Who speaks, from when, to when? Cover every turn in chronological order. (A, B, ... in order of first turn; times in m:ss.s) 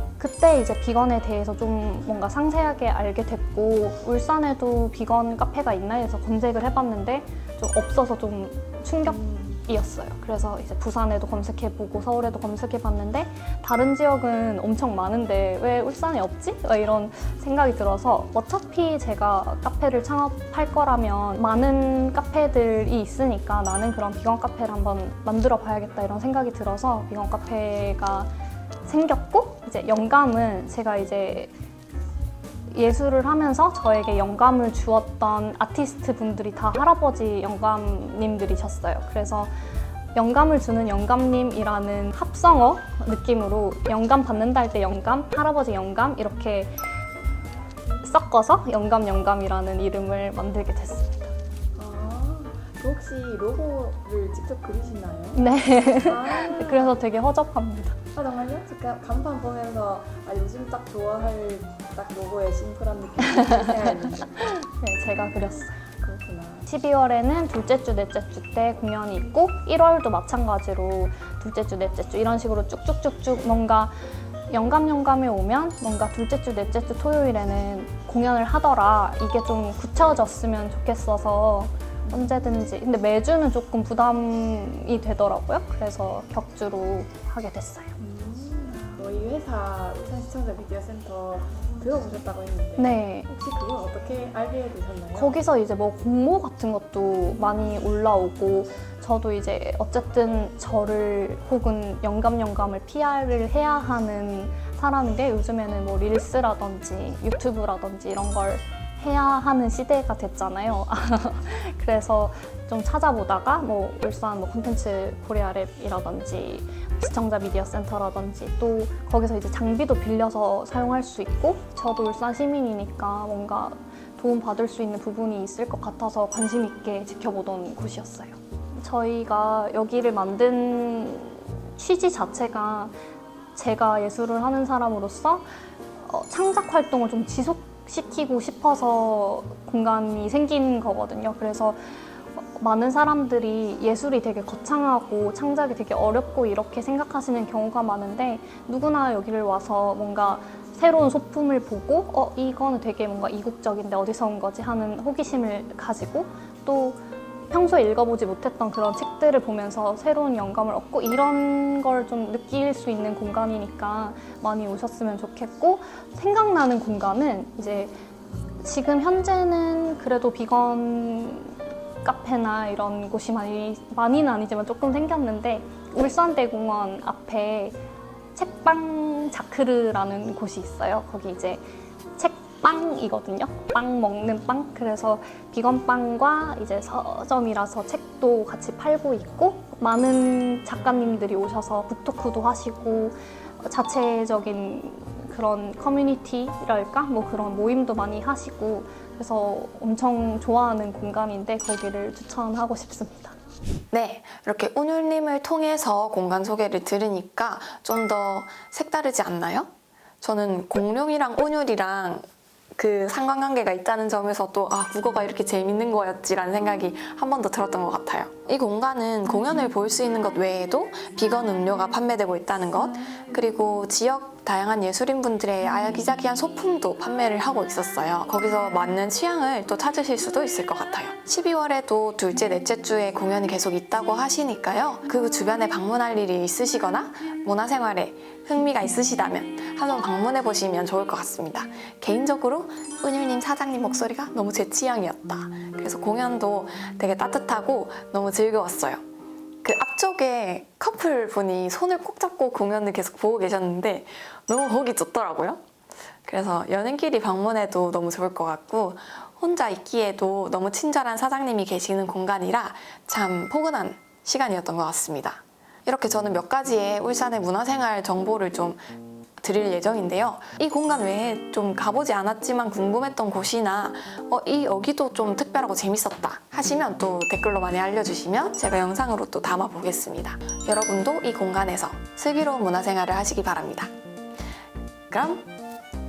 0:00.2-0:28.3 A
0:09.2-0:09.5 B
0:28.8-0:31.5 A
0:32.7-0:39.5 A
0:40.1-0:46.7 A
0:48.0-0:51.3 A
0:51.8-0:55.4 B
0:55.3-0:58.0 A
0:56.0-0:57.0 B
0:58.1-1:04.4 B
1:03.5-1:05.8 A
1:05.9-1:06.6 B
1:06.7-1:13.9 A
1:14.5-1:27.9 A
1:28.0-1:35.4 B
1:32.8-1:33.3 A
1:35.1-2:12.9 A
2:13.5-2:15.4 A
2:16.0-2:21.8 A
2:22.4-2:47.9 A
2:48.6-2:57.8 A
2:58.4-3:01.6 A
3:02.2-3:23.3 A
3:23.9-3:29.7 C
3:30.2-4:09.0 C
4:09.6-4:15.6 C
4:16.2-4:28.8 C
4:29.4-4:43.9 C
4:45.1-4:45.5 C